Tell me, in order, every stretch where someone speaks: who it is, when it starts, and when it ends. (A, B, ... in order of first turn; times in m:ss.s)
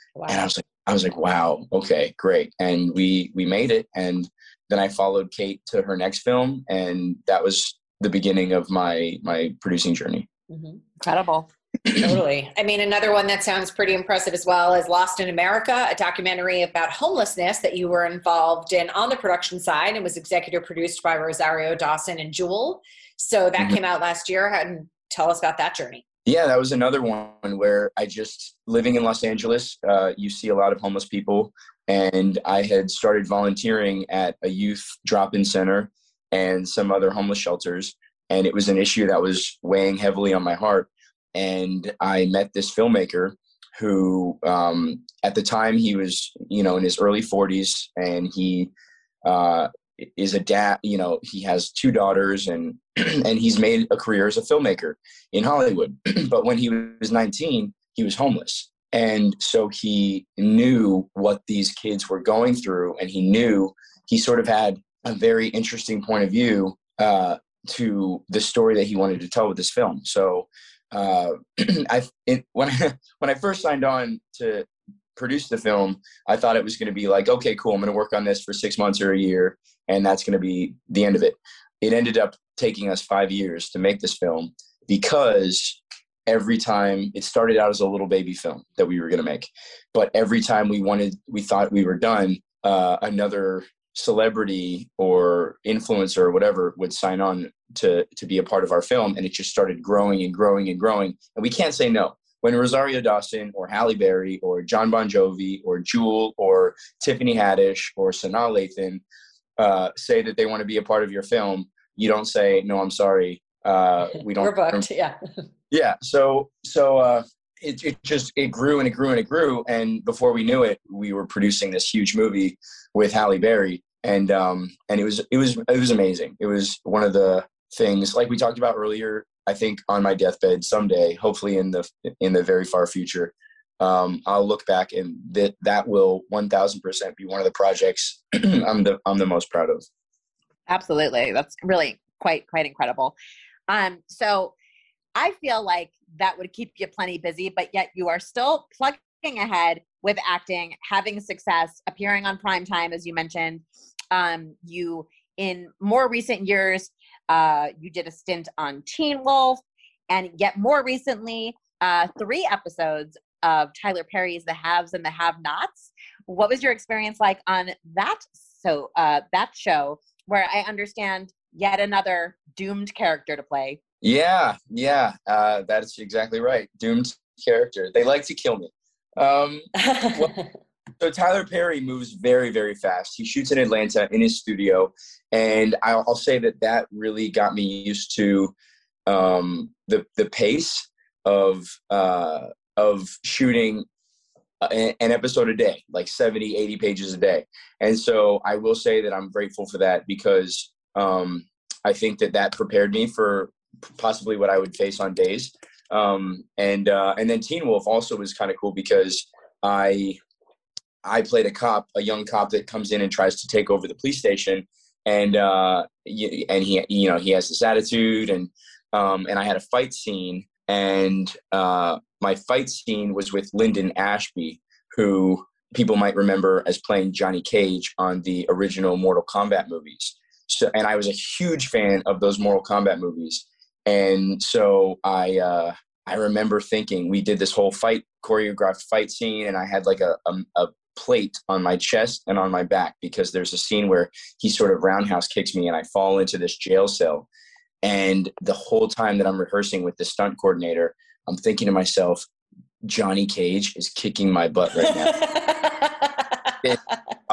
0:00.2-0:00.4 A
0:00.3-0:10.3 B
0:10.5-0:10.8 A
0:11.0-0:11.5 C
0:11.9-0:26.0 A
0:26.2-0:48.7 B
0:49.2-1:49.0 B
1:49.6-1:54.8 B
1:54.4-1:55.2 A
1:55.7-2:19.8 B
2:20.7-2:23.1 C
2:23.7-2:24.5 C
2:25.2-2:53.8 C
2:54.0-3:00.3 B
2:59.8-3:00.4 A
3:01.0-3:08.5 B
3:09.1-3:13.9 B
3:14.6-3:30.2 B
3:31.0-4:07.3 B
4:07.8-4:12.2 B
4:12.8-4:15.4 B
4:14.9-4:16.6 A